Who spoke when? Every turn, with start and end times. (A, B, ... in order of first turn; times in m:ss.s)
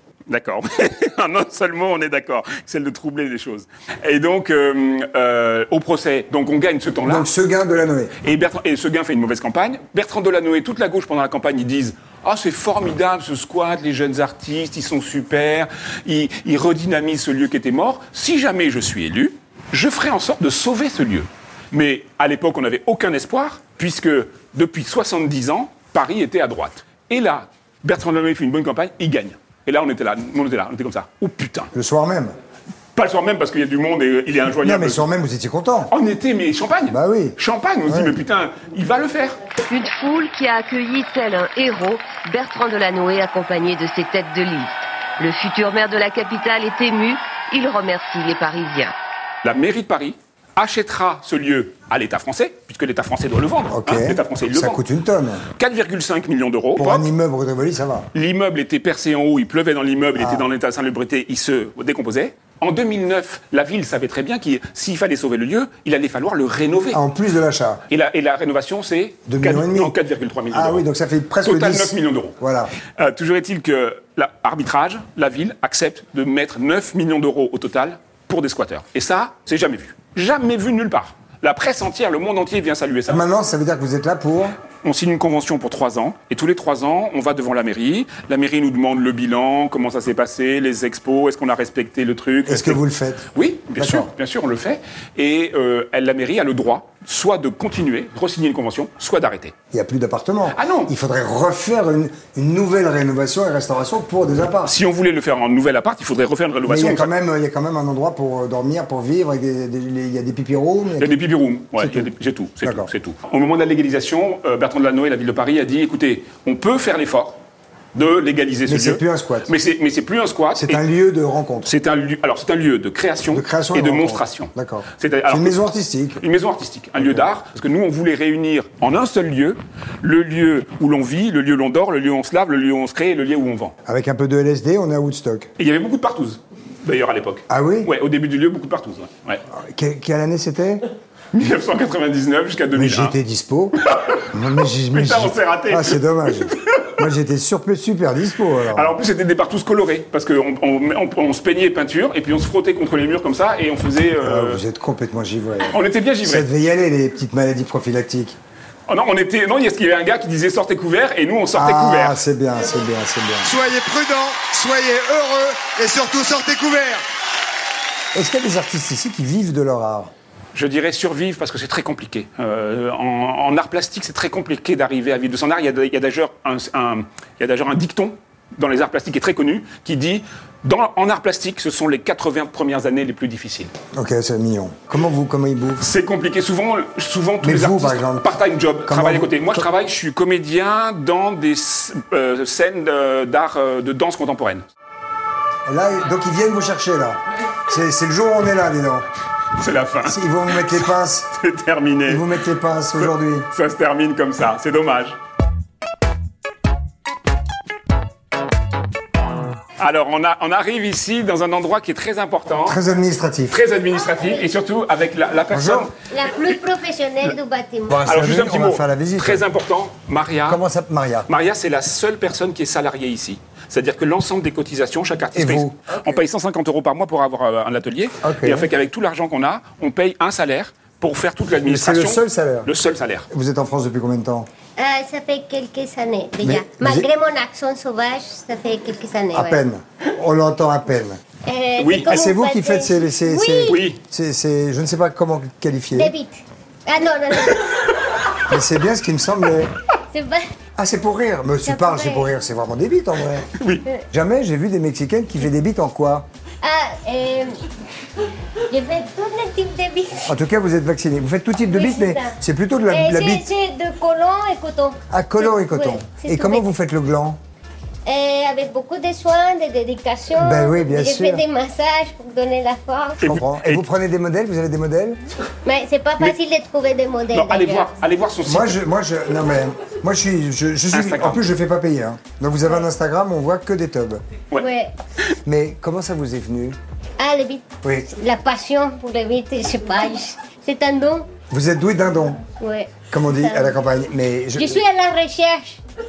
0:00.3-0:07.3 A
0:07.0-0:08.1 B
0:08.2-0:31.7 A
0:31.7-0:32.3 B
0:33.0-0:35.0 A
0:34.6-0:35.9 B
0:35.9-0:39.4 A
0:36.9-0:38.2 B
0:39.7-0:48.9 C
0:49.4-0:54.8 A
0:53.7-0:55.4 B
0:55.6-0:57.1 A
0:56.8-0:58.1 B
0:58.1-1:07.0 A
1:00.2-1:00.4 B
1:06.9-1:07.8 B
1:07.9-1:10.8 A
1:09.3-1:09.9 B
1:10.5-1:12.7 B
1:11.4-1:12.4 A
1:13.0-1:23.2 A
1:23.1-1:24.5 B
1:24.8-1:32.8 A
1:32.5-1:34.1 B
1:33.3-1:39.5 A
1:39.7-1:44.7 B
1:40.5-1:40.9 A
1:44.6-1:47.1 A
1:46.6-1:51.2 B
1:51.0-1:57.4 A
1:51.8-1:52.1 B
1:52.6-1:52.9 B
1:57.9-2:00.8 A
1:58.7-1:59.5 B
2:00.5-2:01.7 B
2:01.6-2:05.6 A
2:03.3-2:06.2 B
2:06.2-2:13.7 A
2:07.0-2:07.2 B
2:13.8-2:15.5 B
2:15.6-2:19.4 A
2:17.5-2:17.9 B
2:19.5-2:20.8 B
2:21.3-2:23.2 A
2:22.7-2:23.8 B
2:23.8-2:24.3 A
2:24.3-2:29.0 B
2:24.9-2:26.9 A
2:28.7-2:34.6 A
2:34.2-2:38.4 B
2:35.7-2:36.5 A
2:38.9-2:42.2 A
2:41.5-2:43.5 B
2:43.4-2:47.0 D
2:48.1-2:50.1 B
2:50.5-3:03.7 A
3:03.9-3:05.8 B
3:05.8-3:14.6 A
3:07.4-3:08.3 B
3:08.8-3:09.6 B
3:15.6-3:19.0 B
3:19.6-3:22.3 A
3:20.0-3:21.3 B
3:22.1-3:23.5 B
3:23.0-3:25.2 A
3:29.8-3:32.8 A
3:32.6-3:33.6 B
3:33.5-3:35.9 A
3:35.5-3:35.9 B
3:36.1-3:38.0 E
3:37.9-3:39.4 B
3:38.0-3:40.6 A
3:40.5-3:41.3 B
3:41.3-3:53.3 A
3:45.3-3:45.7 B
3:48.2-3:48.7 B
3:51.6-3:52.7 B
3:53.3-3:54.5 B
3:54.8-3:59.6 E
3:56.4-3:57.1 B
3:59.3-4:01.2 B
4:01.4-4:03.8 E
4:01.8-4:02.2 A
4:02.0-4:06.1 B
4:03.6-4:04.0 A
4:05.9-4:07.9 E
4:08.5-4:09.7 B
4:10.1-4:10.5 E
4:10.8-4:13.5 B
4:11.6-4:12.3 E
4:13.6-4:13.8 A
4:14.1-4:16.3 B
4:16.6-4:17.6 E
4:18.7-4:20.3 E
4:20.2-4:23.5 B
4:21.6-4:22.4 E
4:22.9-4:26.6 E
4:25.1-4:27.4 B
4:28.0-4:33.2 E
4:30.3-4:31.4 B
4:33.2-4:33.8 A
4:33.2-4:35.2 B
4:35.6-4:37.9 E
4:37.3-4:38.8 A
4:38.4-4:44.2 B
4:40.9-4:41.4 A
4:44.6-4:44.9 E
4:45.4-4:46.8 B
4:47.2-4:51.3 E
4:47.8-4:48.1 B
4:51.5-4:52.4 B
4:52.6-4:53.8 E
4:53.1-4:54.8 B
4:54.6-4:55.8 E